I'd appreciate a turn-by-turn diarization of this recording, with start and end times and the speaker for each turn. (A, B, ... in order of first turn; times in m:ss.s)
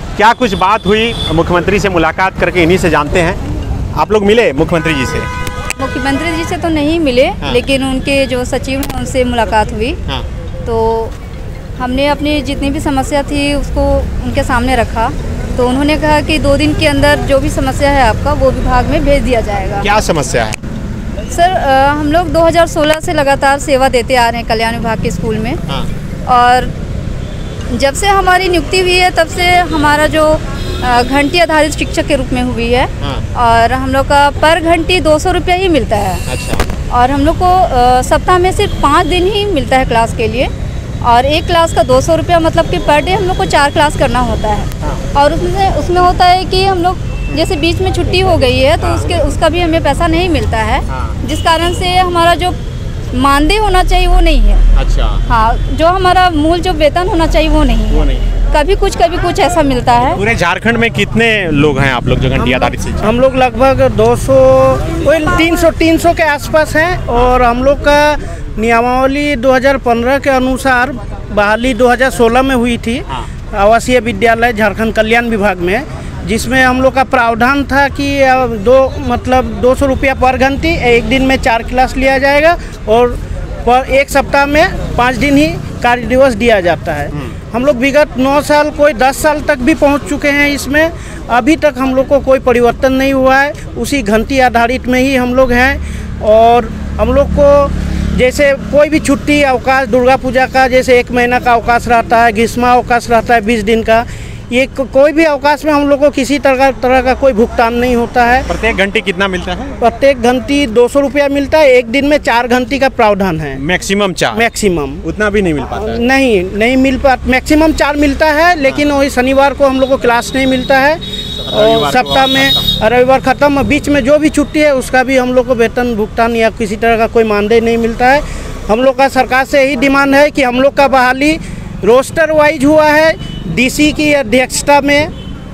0:00.1-0:03.4 A
0:03.9-0:05.3 A
0:05.8-0:10.0 B
0:10.6-0:11.1 B
0:11.8-0:19.9 B
0:19.8-0:20.6 A
0:21.3-0:25.6 B
0:26.3-0:26.7 B
0:27.7-0:36.2 B
0:33.0-0:33.2 A
0:36.2-0:36.6 A
0:36.9-0:40.5 B
0:41.0-0:52.6 B
0:48.8-0:49.3 A
0:50.9-0:51.2 A
0:53.1-0:54.6 B
0:54.7-0:55.2 A
0:55.3-1:00.2 B
0:57.9-0:58.2 A
1:00.1-1:03.1 A
1:02.4-1:48.5 C
1:48.5-1:49.8 A
1:49.8-1:53.6 C
1:53.6-1:54.4 A
1:54.3-1:55.0 C
1:55.0-1:56.0 A
1:55.7-2:15.1 C
2:01.4-2:02.6 A